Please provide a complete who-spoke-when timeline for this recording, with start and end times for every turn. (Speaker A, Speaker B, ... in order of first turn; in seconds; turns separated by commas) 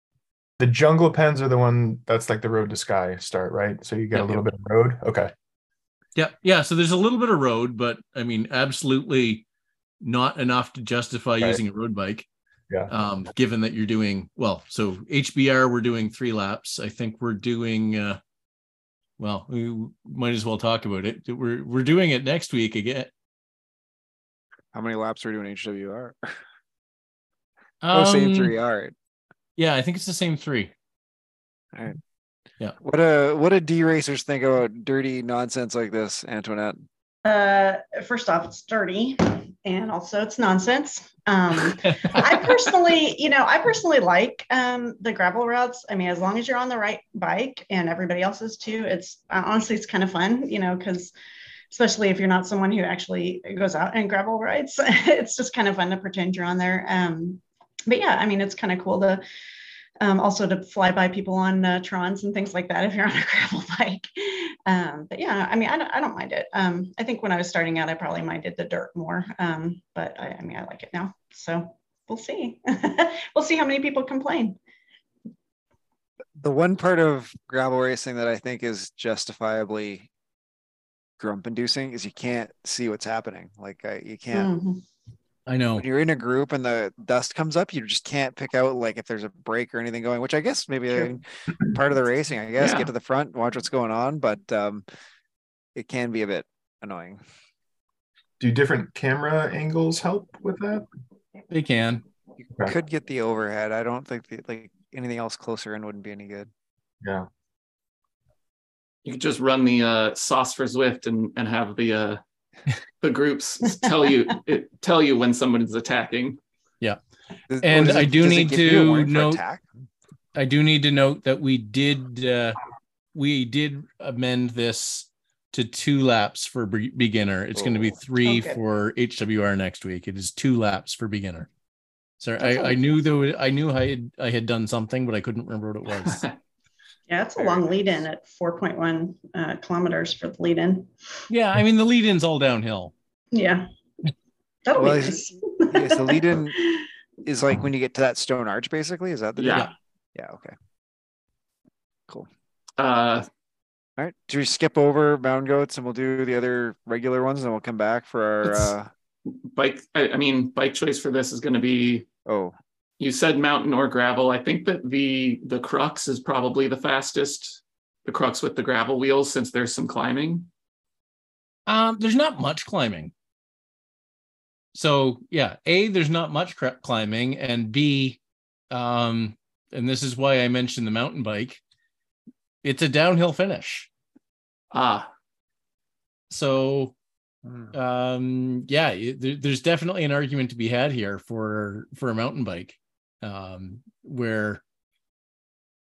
Speaker A: 0.6-5.3, Speaker B: 4.1-4.4, Speaker B: 6.2-9.4, Speaker B: 10.0-12.3, Speaker B: 12.9-18.2, Speaker B: 19.2-23.1, Speaker C: 24.7-26.4, Speaker B: 27.8-28.5, Speaker C: 27.9-28.9, Speaker B: 29.6-30.7, Speaker C: 32.8-36.9, Speaker D: 37.2-51.1, Speaker D: 51.7-59.2, Speaker D: 60.0-74.6, Speaker C: 76.4-80.1, Speaker C: 81.2-84.5, Speaker D: 84.3-84.8, Speaker B: 85.5-85.8, Speaker C: 85.8-94.8, Speaker E: 92.6-92.9, Speaker C: 95.7-97.2, Speaker A: 98.4-100.8, Speaker B: 101.5-102.0, Speaker C: 102.6-106.5, Speaker E: 109.0-112.2, Speaker E: 113.0-116.4, Speaker C: 117.5-119.7, Speaker B: 117.6-119.4, Speaker B: 120.3-122.6, Speaker B: 123.1-131.5, Speaker C: 127.5-128.0, Speaker D: 128.2-128.6, Speaker B: 132.2-136.3, Speaker D: 132.4-132.8, Speaker D: 137.1-140.9, Speaker C: 137.4-138.0, Speaker B: 141.3-142.9, Speaker D: 143.3-143.7, Speaker D: 144.7-146.9, Speaker C: 144.8-146.6, Speaker C: 147.2-150.6, Speaker E: 149.4-149.7, Speaker E: 152.8-153.2, Speaker C: 154.0-158.9, Speaker E: 158.4-158.7, Speaker E: 159.2-162.1, Speaker C: 162.2-162.5, Speaker E: 163.0-170.5, Speaker B: 171.7-173.1, Speaker B: 174.7-178.2, Speaker B: 178.7-181.6, Speaker B: 182.6-183.9, Speaker E: 184.7-185.1, Speaker B: 186.3-186.9, Speaker C: 187.4-187.7, Speaker B: 187.7-194.6